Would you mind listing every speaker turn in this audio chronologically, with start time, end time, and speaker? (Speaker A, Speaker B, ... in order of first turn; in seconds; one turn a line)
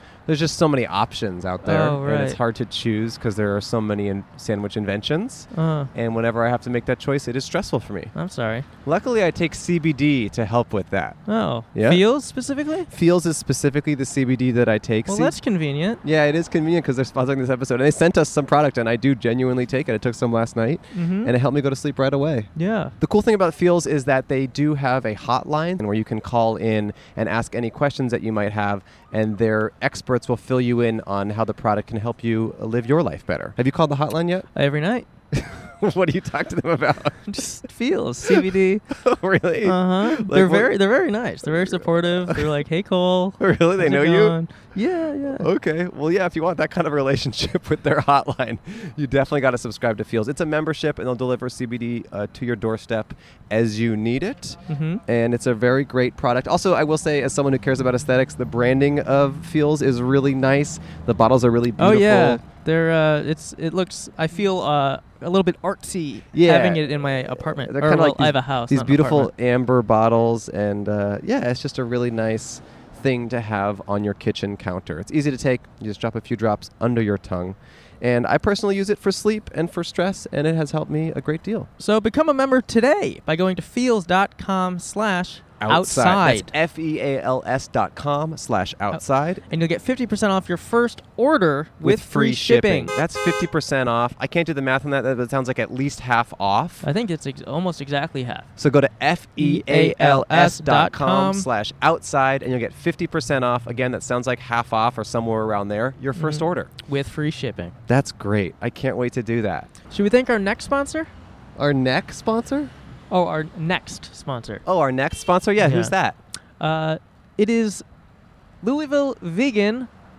Speaker A: 0.2-8.1
Speaker B: 1.6-2.4
Speaker B: 5.5-5.9
Speaker B: 8.1-8.7
Speaker A: 8.8-11.2
Speaker B: 11.2-12.9
Speaker A: 11.7-12.1
Speaker A: 12.9-15.4
Speaker B: 15.1-16.0
Speaker A: 16.0-34.5
Speaker B: 20.9-21.3
Speaker B: 22.6-22.9
Speaker B: 34.5-35.1
Speaker A: 35.3-37.4
Speaker B: 37.3-38.9
Speaker A: 38.2-40.7
Speaker B: 39.6-45.5
Speaker A: 41.4-42.5
Speaker A: 43.4-44.4
Speaker A: 45.3-62.4
Speaker B: 54.7-55.0
Speaker B: 61.8-69.3
Speaker A: 66.3-81.7
Speaker B: 81.8-86.5
Speaker A: 85.6-89.4
Speaker B: 88.9-92.9
Speaker A: 91.8-96.9
Speaker B: 96.8-98.5
Speaker A: 98.6-106.7
Speaker B: 99.4-101.5
Speaker B: 106.2-107.7
Speaker A: 107.9-109.7
Speaker B: 109.9-111.1
Speaker A: 111.6-112.7
Speaker B: 113.1-114.6
Speaker A: 114.7-116.2
Speaker B: 115.6-115.9
Speaker B: 116.6-117.8
Speaker B: 118.6-119.9